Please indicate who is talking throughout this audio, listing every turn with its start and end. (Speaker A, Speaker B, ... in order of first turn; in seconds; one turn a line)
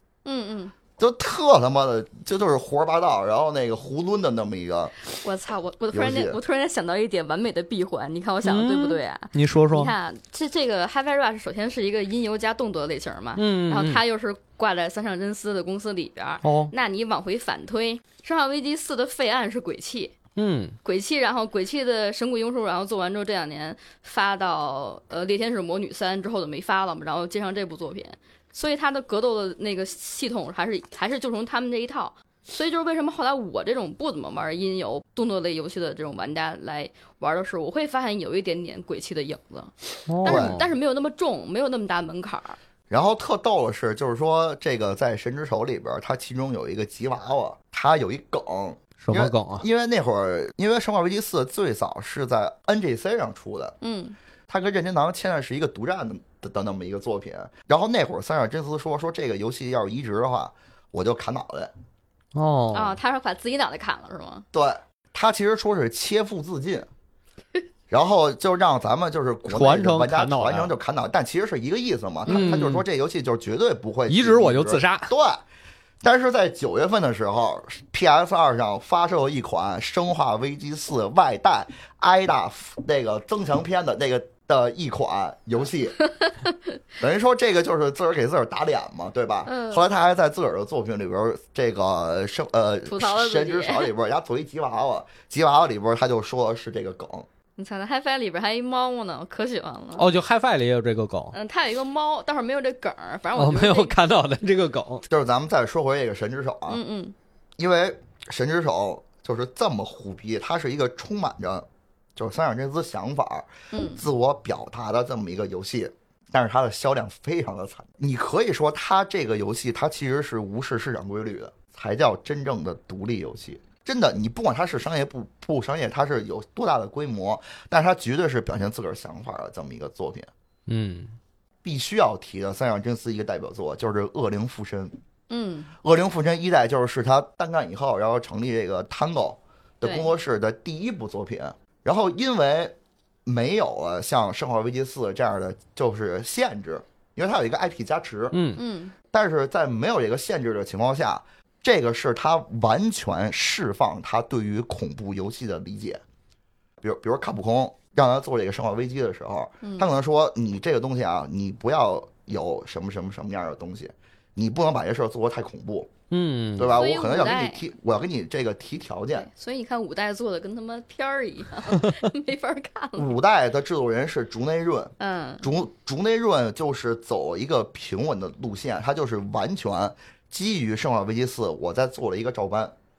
Speaker A: 0.2-0.7
Speaker B: 1.0-4.9
Speaker A: 5.1-20.1
Speaker B: 5.9-6.4
Speaker C: 8.4-9.9
Speaker C: 13.4-14.0
Speaker C: 16.4-16.7
Speaker C: 20.4-20.8
Speaker A: 20.8-42.6
Speaker C: 40.1-40.7
Speaker B: 40.2-40.6
Speaker B: 42.9-53.8
Speaker C: 49.0-49.7
Speaker A: 53.8-54.2
Speaker B: 54.5-61.7
Speaker C: 62.3-63.0
Speaker A: 62.7-64.5
Speaker B: 64.5-66.9
Speaker B: 67.9-75.4
Speaker C: 69.5-70.7
Speaker A: 72.3-72.6
Speaker C: 72.3-72.8
Speaker C: 74.1-75.1
Speaker B: 76.0-86.0
Speaker A: 86.1-86.5
Speaker B: 87.0-97.3
Speaker A: 89.5-89.9
Speaker A: 92.9-93.9
Speaker A: 97.6-100.1
Speaker C: 100.0-101.3
Speaker A: 101.3-104.0
Speaker C: 103.4-105.0
Speaker B: 105.1-106.8
Speaker A: 106.7-107.2
Speaker B: 107.6-130.3
Speaker A: 113.7-114.0
Speaker C: 130.7-131.2
Speaker B: 131.6-135.0
Speaker A: 135.3-135.7
Speaker B: 135.8-148.4
Speaker A: 139.8-140.1
Speaker C: 148.3-148.6
Speaker A: 148.6-148.9
Speaker B: 149.1-156.0
Speaker B: 156.8-165.9
Speaker A: 159.6-159.9
Speaker C: 166.1-166.8
Speaker B: 166.6-169.3
Speaker A: 166.7-167.7
Speaker A: 169.1-173.1
Speaker B: 173.0-182.8
Speaker A: 175.0-175.5